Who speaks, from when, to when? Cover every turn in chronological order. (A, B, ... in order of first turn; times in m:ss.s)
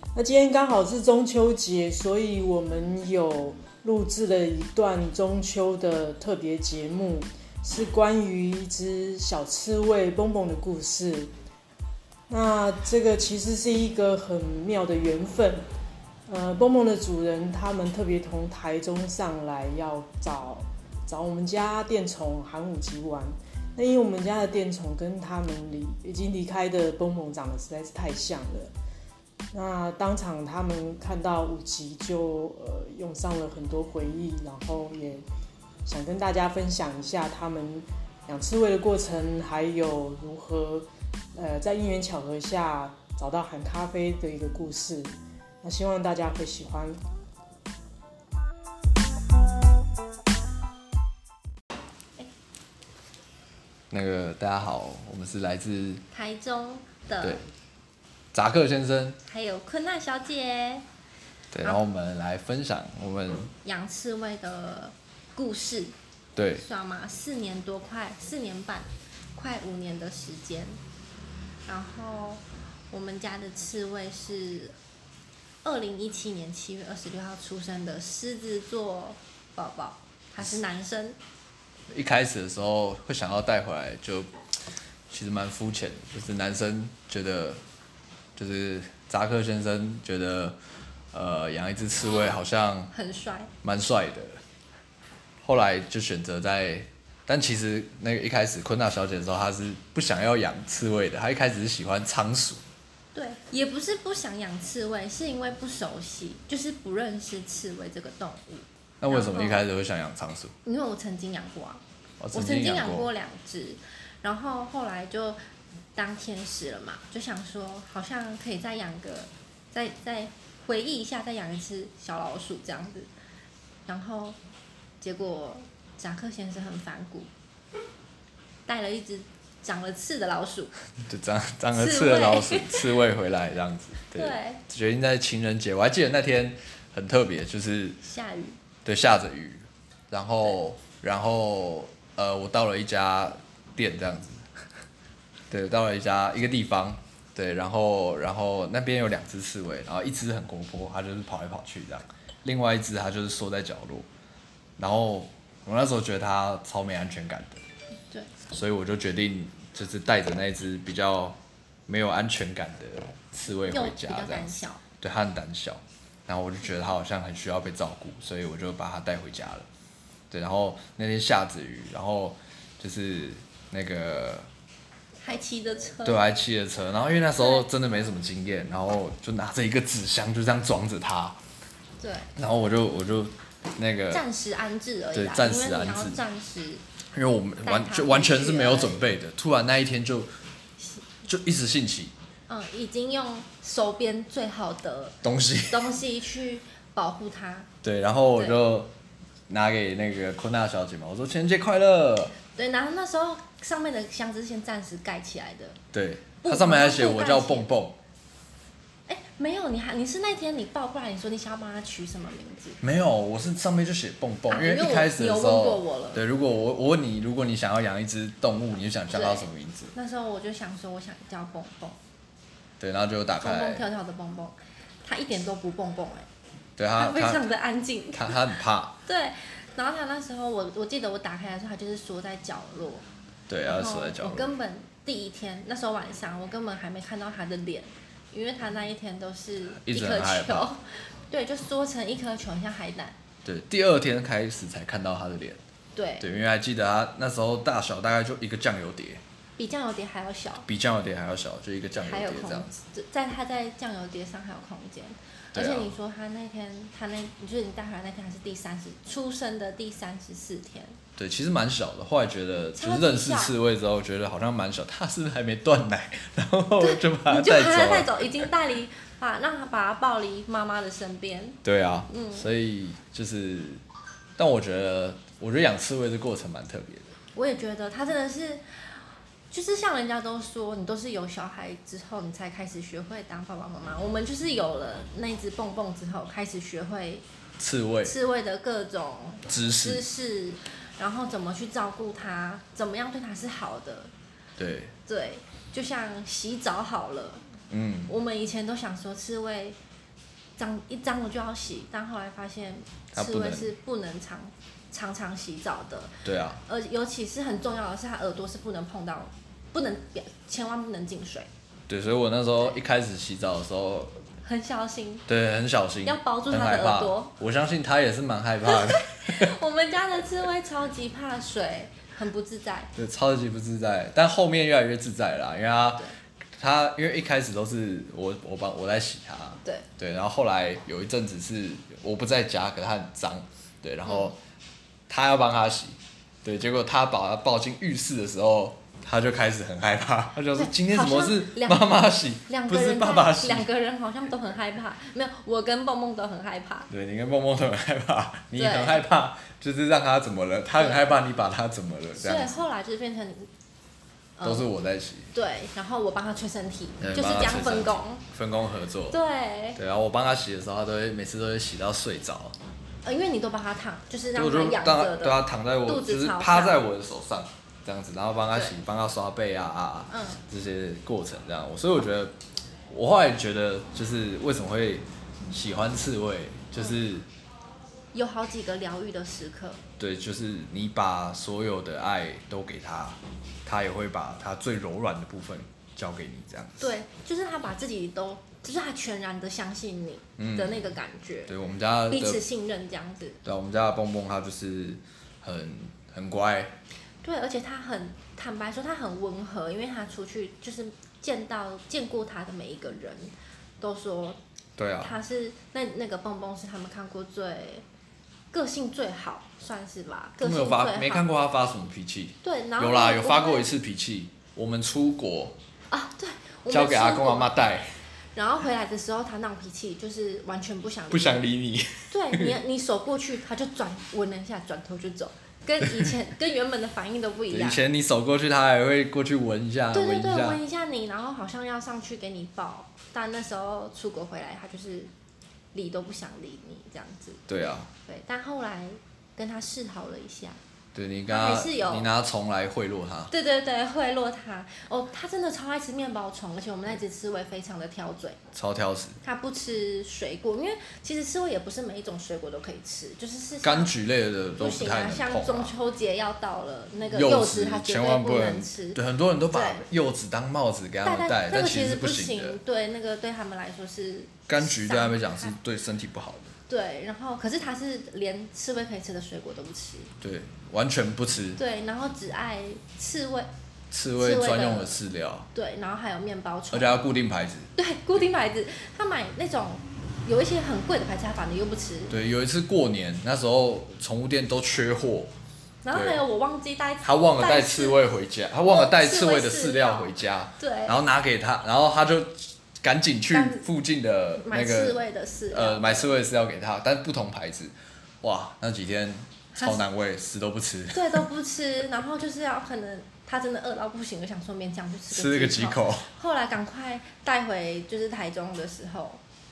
0:00.1-0:11.3 A
0:12.3-0:15.6 A
0:16.3-0:28.7 A
0:29.5-0:35.2 A
0:35.8-0:47.0 A
0:53.9-0:56.0 B
0:56.1-0:57.4 C
0:58.3-0:59.2 B
0:59.2-1:00.8 C
1:01.5-1:03.5 B
1:03.6-1:05.9 C
1:06.4-1:06.6 B
1:06.5-1:10.8 C
1:11.6-1:14.7 C
1:15.6-1:21.2 C
1:21.9-1:24.3 B
1:25.1-1:27.6 B
1:28.4-1:30.6 B
1:31.1-1:32.9 B
1:32.9-1:33.5 C
1:33.6-1:34.4 B
1:35.4-1:42.6 B
1:43.1-1:49.6 C
1:49.0-1:50.5 B
1:50.6-1:51.8 C
1:52.2-1:53.1 B
1:52.3-1:55.4 C
1:55.9-2:03.1 C
2:03.9-2:04.4 C
2:05.0-2:07.3 C
2:08.6-2:10.7 C
2:11.0-2:18.0 B
2:11.7-2:12.9 C
2:14.1-2:14.6 C
2:18.0-2:18.6 C
2:18.8-2:24.5 B
2:25.5-2:34.0 B
2:34.8-2:37.6 B
2:38.5-2:49.6 B
2:43.7-2:44.8 C
2:50.3-2:54.5 B
2:55.2-2:56.3 C
2:56.0-3:01.4 B
2:57.4-2:57.7 C
3:02.0-3:02.3 C
3:02.4-3:04.2 B
3:04.1-3:06.8 C
3:05.1-3:06.2 B
3:07.1-3:10.3 B
3:07.6-3:09.0 C
3:11.2-3:12.1 B
3:12.5-3:15.2 C
3:15.2-3:15.8 B
3:15.7-3:17.7 C
3:17.8-3:18.9 B
3:18.3-3:18.6 C
3:19.5-3:22.3 B
3:22.5-3:25.8 C
3:25.9-3:28.0 B
3:26.4-3:27.7 C
3:29.1-3:32.8 C
3:32.8-3:39.9 B
3:34.5-3:36.2 C
3:39.1-3:42.0 C
3:42.8-3:43.8 B
3:43.4-3:46.3 C
3:46.8-3:47.5 B
3:46.9-3:48.4 C
3:48.1-3:48.9 B
3:49.0-3:53.0 C
3:53.5-3:54.5 B
3:53.6-4:03.1 C
3:59.8-4:00.7 B
4:03.4-4:05.6 B
4:05.9-4:06.3 C
4:06.2-4:09.2 B
4:09.6-4:10.6 C
4:10.6-4:12.7 B
4:12.0-4:21.0 C
4:15.5-4:15.9 B
4:21.2-4:28.5 B
4:22.7-4:23.5 C
4:26.8-4:31.6 C
4:31.6-4:33.8 B
4:32.1-4:32.5 C
4:34.4-4:37.1 B
4:37.3-4:38.6 C
4:39.5-4:47.2 C
4:47.6-4:48.1 B
4:48.0-4:54.1 C
4:49.5-4:50.0 B
4:54.6-4:54.9 B
4:55.0-4:57.4 C
4:57.7-4:58.1 B
4:58.1-4:59.8 C
5:00.6-5:11.5 C
5:03.1-5:03.7 B
5:06.2-5:06.6 B
5:11.9-5:14.1 B
5:14.4-5:15.2 C
5:15.3-5:19.5 B
5:16.0-5:17.3 C
5:18.6-5:22.9 C
5:23.0-5:26.0 B
5:26.6-5:34.4 B
5:34.0-5:34.3 C
5:35.1-5:43.6 B
5:40.5-5:46.9 C
5:46.9-5:52.6 B
5:48.5-5:49.0 C
5:50.8-5:51.1 C
5:52.2-5:53.5 C
5:54.4-5:54.7 C
5:54.4-5:55.3 B
5:55.3-5:58.2 C
5:57.0-5:59.2 B
5:59.1-5:59.8 C
5:59.8-6:02.6 B
6:03.0-6:06.8 C
6:04.3-6:12.3 B
6:10.1-6:10.4 C
6:12.9-6:17.3 B
6:18.1-6:19.8 C
6:20.0-6:26.9 B
6:26.8-6:31.5 C
6:30.4-6:31.0 B
6:31.5-6:32.4 B
6:32.1-6:33.4 C
6:33.4-6:36.7 B
6:37.2-6:44.4 C
6:44.8-6:45.2 B
6:45.0-6:47.8 C
6:48.5-6:51.3 C
6:50.4-6:55.6 B
6:52.4-6:53.7 C
6:55.9-6:57.5 C
6:56.7-6:57.9 B
6:58.3-7:01.4 C
7:01.1-7:02.6 B
7:02.1-7:07.8 C
7:07.5-7:10.6 B
7:09.9-7:15.1 C
7:15.7-7:17.4 C
7:17.5-7:17.9 B
7:18.0-7:20.6 C
7:20.9-7:23.3 B
7:21.3-7:22.1 C
7:23.3-7:28.4 C
7:28.5-7:29.2 B
7:29.2-7:33.9 C
7:33.6-7:35.7 B
7:34.6-7:39.0 C
7:37.1-7:42.6 B
7:39.5-7:39.8 C
7:41.0-7:45.5 C
7:44.5-7:46.5 B
7:46.7-7:50.1 C
7:50.2-7:51.6 B
7:51.6-7:53.5 C
7:53.9-7:55.5 B
7:54.2-7:55.0 C
7:55.5-7:57.0 C
7:56.7-7:57.7 B
7:57.8-8:02.2 C
8:02.1-8:05.3 B
8:05.8-8:08.0 C
8:05.9-8:06.2 B
8:07.0-8:15.0 B
8:08.6-8:11.0 C
8:13.3-8:13.6 C
8:14.4-8:16.1 C
8:15.5-8:21.3 B
8:19.5-8:19.8 C
8:20.9-8:29.2 C
8:25.1-8:26.1 B